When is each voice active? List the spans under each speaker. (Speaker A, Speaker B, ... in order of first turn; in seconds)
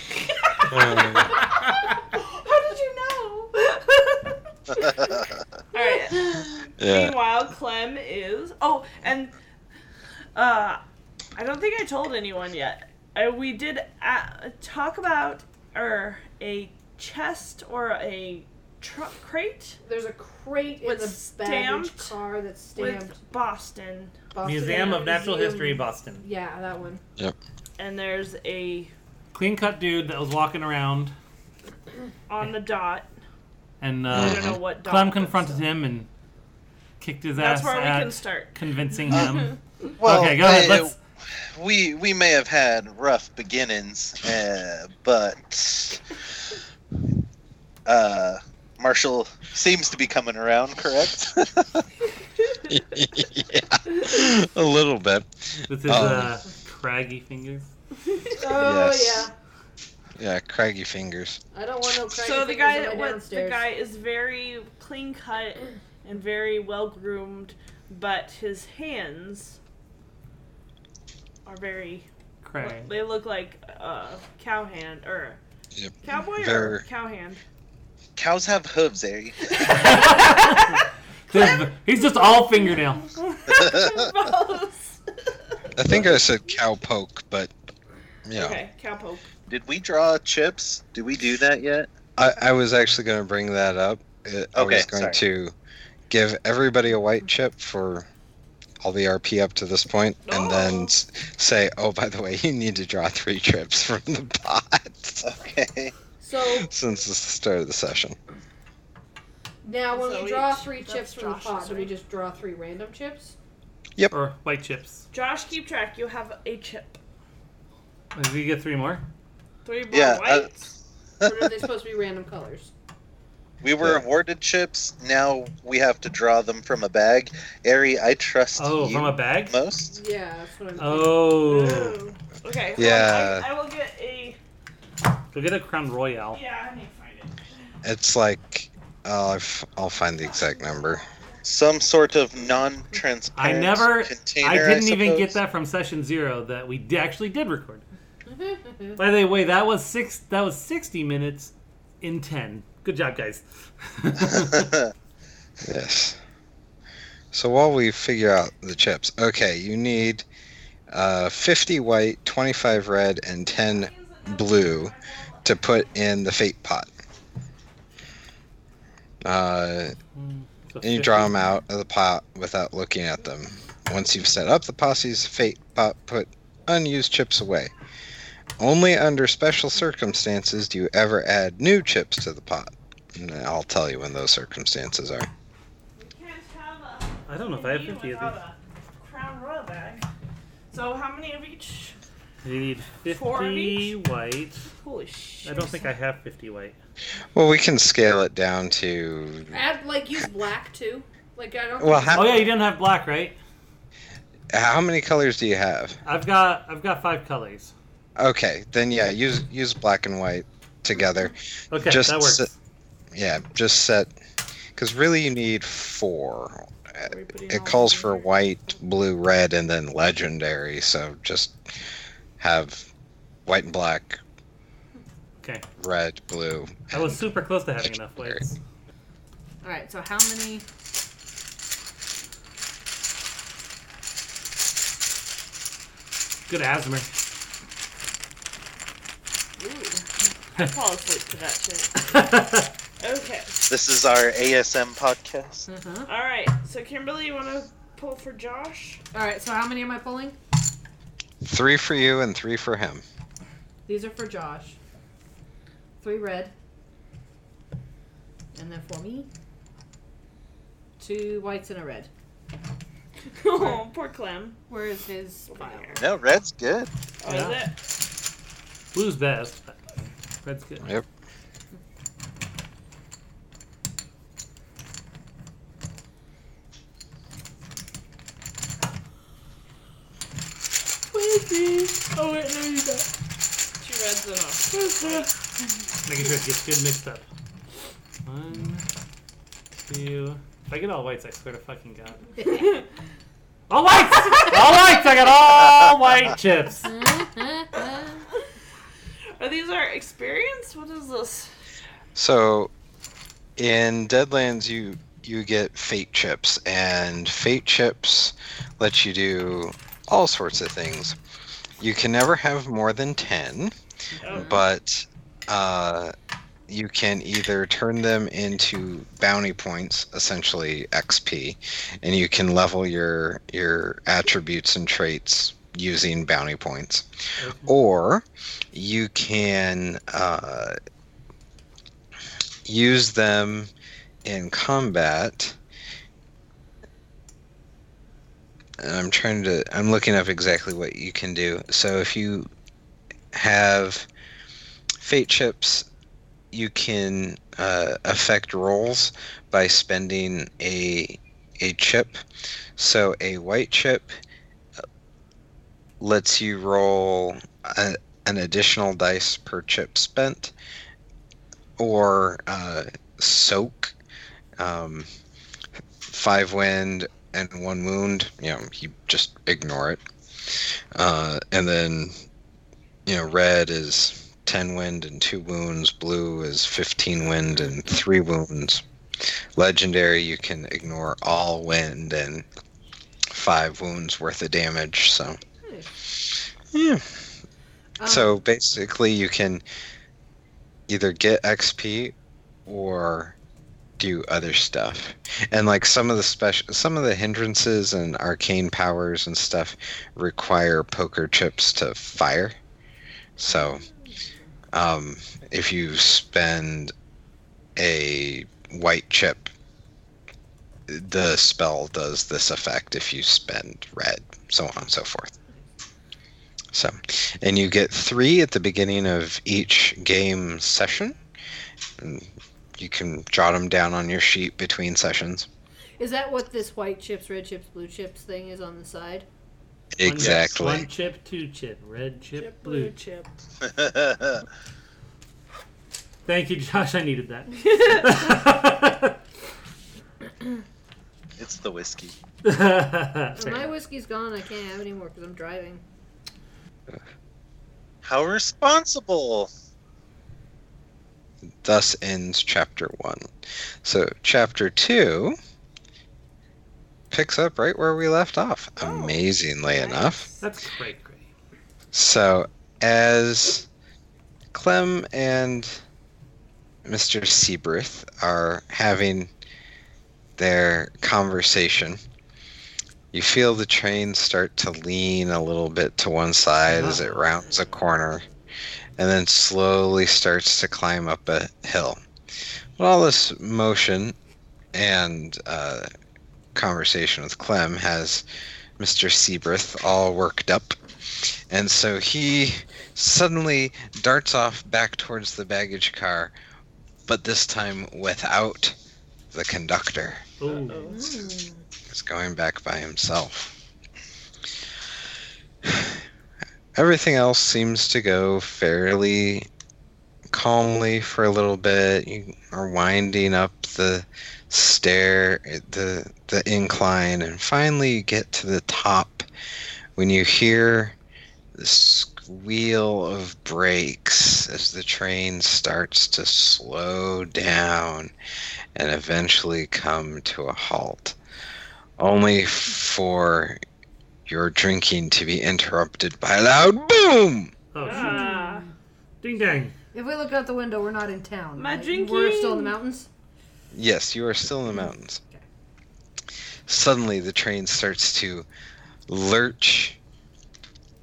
Speaker A: 0.2-5.2, 5.7-9.3, 10.3-10.8, 11.3-19.8, 20.8-22.1, 22.8-25.2, 27.8-28.9, 32.3-33.1, 34.1-35.6, 37.4-38.5, 39.1-39.5, 62.2-69.6, 71.5-72.1, 72.6-75.4, 76.0-77.4, 79.5-80.8, 83.0-85.0, 88.3-89.3, 100.2-100.9, 109.9-111.9, 115.1-117.0, 119.6-120.7, 131.4-134.4, 136.3-137.4, 140.2-141.0, 163.5-165.9, 185.9-190.1, 190.7-192.0, 193.1-193.9, 194.7-195.9, 217.0-218.3, 240.6-242.1, 243.0-243.6, 246.1-249.0, 263.4-264.6, 265.5-266.0, 267.2-267.8, 283.8-285.3, 292.5-292.8, 299.4-301.5, 314.2-314.6, 432.3-433.3, 437.6-438.1, 458.8-460.4, 500.5-501.3, 537.8-538.6, 541.5-542.8
Speaker B: 0.7-1.4, 6.8-7.2, 34.1-34.6, 52.7-56.4, 58.6-59.2, 60.2-61.4, 75.7-76.8, 85.8-87.5, 88.2-88.6, 92.2-95.5, 96.1-98.1, 98.8-105.2, 106.6-108.2, 132.8-133.4, 137.8-141.0, 155.6-156.2, 157.3-160.2, 160.9-166.9, 169.2-169.9, 170.8-177.7, 178.6-185.3, 197.3-199.6, 201.8-202.4, 204.5-206.0, 208.2-212.5, 213.1-214.1, 214.8-216.7, 217.5-221.6, 222.4-222.9, 223.5-224.2, 225.8-226.7, 251.4-253.0, 302.1-302.7, 303.6-311.1, 311.8-313.7, 314.3-316.1, 316.7-327.0, 327.6-330.7, 332.6-333.7, 334.2-335.6, 338.8-342.4, 343.3-344.1, 345.0-345.8, 346.5-352.2, 352.8-354.1, 356.0-360.5, 361.8-363.9, 364.6-365.1, 366.1-370.0, 370.9-372.1, 373.1-378.8, 379.6-382.4, 383.3-385.4, 386.7-387.0, 388.1-389.6, 390.9-392.1, 392.7-393.3, 394.0-402.5, 403.4-403.8, 404.7-406.9, 407.8-409.5, 410.9-415.3, 416.7-421.1, 422.0-422.3, 422.8-425.5, 430.0-430.9, 451.6-453.2, 453.8-455.3, 457.1-460.2, 461.9-463.6, 464.5-465.7, 466.9-469.3, 470.4-472.0, 473.1-478.2, 479.0-482.0, 482.8-484.1, 484.7-485.8, 486.5-488.2, 488.8-490.8, 491.5-496.3, 497.1-498.7, 499.3-500.2, 501.9-503.5, 506.8-509.5, 510.3-519.2, 520.0-520.9, 521.6-528.1, 528.8-531.1, 532.0-533.6, 534.3-537.5, 543.7-545.2, 546.7-548.5, 549.1-550.0
Speaker C: 4.7-5.3, 40.0-41.0, 41.5-46.0, 47.9-51.8, 78.2-80.1, 83.5-84.1, 89.5-91.9, 94.5-95.2, 105.2-105.9, 119.9-120.5, 121.2-121.5, 123.6-129.9, 141.4-145.4, 154.3-154.9, 243.7-245.7, 266.0-266.9, 430.2-430.4, 433.6-434.4, 441.4-442.1, 448.0-449.5
Speaker D: 19.8-23.1, 24.3-27.0, 58.4-59.3, 61.5-63.6, 106.2-106.7, 109.6-113.3, 121.2-122.7, 129.8-131.4, 148.2-149.0, 199.5-202.5, 229.6-230.7, 239.6-240.0, 245.7-246.1, 249.1-250.4, 253.8-254.8, 256.0-256.5, 258.5-259.3, 261.0-262.1, 263.6-263.8, 264.7-266.1, 281.1-283.1, 292.4-292.8, 296.8-298.2, 314.2-314.6, 385.6-385.9, 388.0-388.4, 426.0-429.2, 443.4-445.8, 500.8-501.6, 537.8-538.7, 539.9-543.1
Speaker E: 24.4-26.2, 29.3-31.1, 33.8-36.1, 37.0-40.9, 55.7-57.7, 72.4-72.9, 79.7-83.1, 114.1-115.0, 118.1-119.0, 128.6-129.5, 130.8-132.0, 135.3-136.4, 143.3-147.8, 148.9-154.7, 170.2-171.4, 187.3-188.3, 192.4-194.7, 195.4-196.8, 202.1-203.4, 206.0-207.7, 211.7-212.5, 226.9-228.6, 236.5-237.1, 242.1-242.7, 267.2-267.6, 268.9-270.9, 286.0-287.2, 288.2-288.8, 289.9-292.2, 293.7-296.9, 327.4-327.7, 430.0-432.9, 436.2-439.2, 442.4-443.7, 460.4-461.3, 476.7-477.1, 500.4-500.9, 537.7-538.3, 539.2-539.7